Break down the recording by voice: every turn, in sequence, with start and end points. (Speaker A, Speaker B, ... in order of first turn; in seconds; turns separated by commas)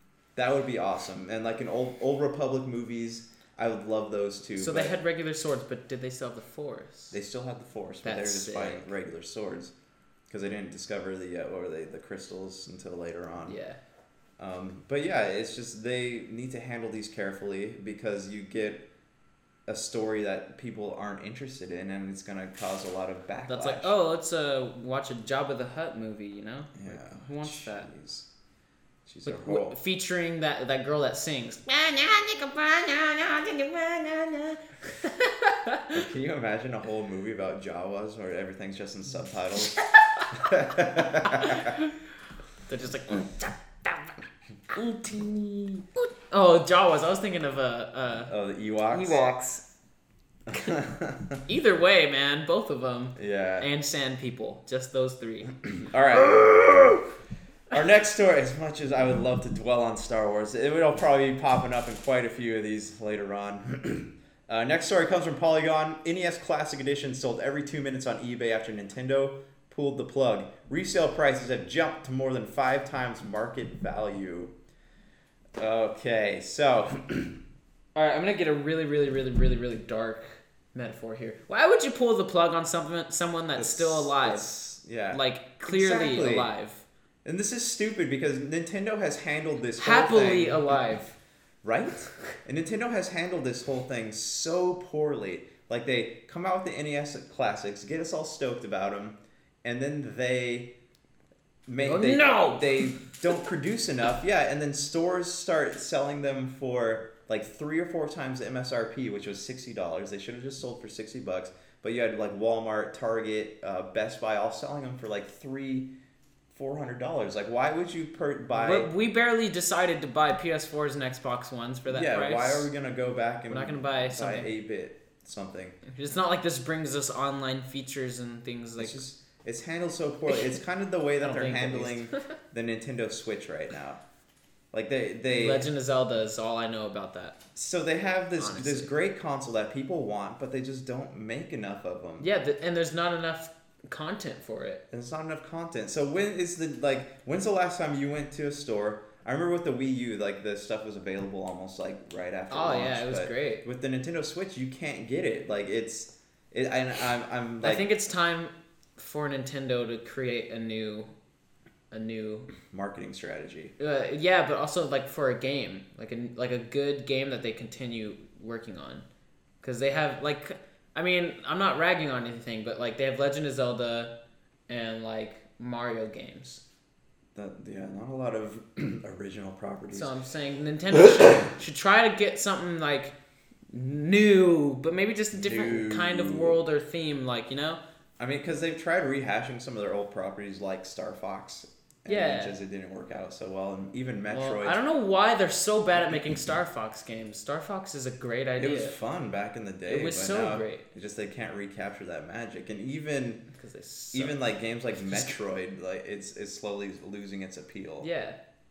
Speaker A: 0.4-5.0, Speaker B: 4.6-7.2, Speaker A: 7.1-9.7, Speaker B: 8.0-8.9, Speaker A: 10.3-13.6, Speaker B: 13.4-13.8, Speaker A: 14.4-18.9, Speaker A: 19.7-23.9, Speaker B: 23.5-27.9, Speaker A: 26.8-28.3, Speaker A: 29.1-29.8, Speaker B: 29.2-36.0, Speaker A: 35.9-41.8, Speaker B: 39.8-40.5, Speaker B: 41.3-41.9, Speaker B: 42.7-44.1, Speaker B: 44.7-48.3, Speaker A: 48.3-49.2, Speaker B: 48.9-49.6, Speaker A: 50.5-51.4, Speaker B: 51.5-55.6, Speaker A: 53.1-53.7, Speaker A: 55.6-57.0, Speaker A: 57.7-74.5, Speaker A: 75.6-77.4, Speaker B: 77.9-84.5, Speaker A: 83.6-86.5, Speaker B: 85.1-86.8, Speaker A: 87.2-90.9, Speaker B: 89.8-91.1, Speaker A: 91.6-100.7, Speaker A: 101.7-115.9, Speaker B: 101.8-103.0, Speaker A: 116.5-118.9, Speaker B: 118.5-122.7, Speaker A: 121.9-125.8, Speaker B: 123.5-124.5, Speaker B: 125.9-129.0, Speaker A: 128.8-134.0, Speaker B: 131.2-132.1, Speaker A: 134.7-135.7, Speaker B: 135.3-137.4, Speaker A: 137.6-142.3, Speaker B: 138.4-138.9, Speaker B: 142.2-144.8, Speaker A: 144.9-157.9, Speaker B: 152.5-153.6, Speaker B: 157.6-161.1, Speaker B: 161.9-162.5, Speaker A: 162.7-163.8, Speaker B: 163.8-169.1, Speaker B: 169.6-174.1, Speaker B: 174.7-176.6, Speaker A: 177.3-180.1, Speaker B: 179.9-183.1, Speaker B: 183.7-187.8, Speaker A: 185.3-186.6, Speaker A: 188.2-194.8, Speaker B: 192.1-192.6, Speaker B: 194.3-198.9, Speaker A: 196.0-196.3, Speaker A: 198.6-203.4, Speaker B: 199.9-200.9, Speaker B: 203.5-204.4, Speaker A: 204.1-208.1, Speaker B: 208.0-208.4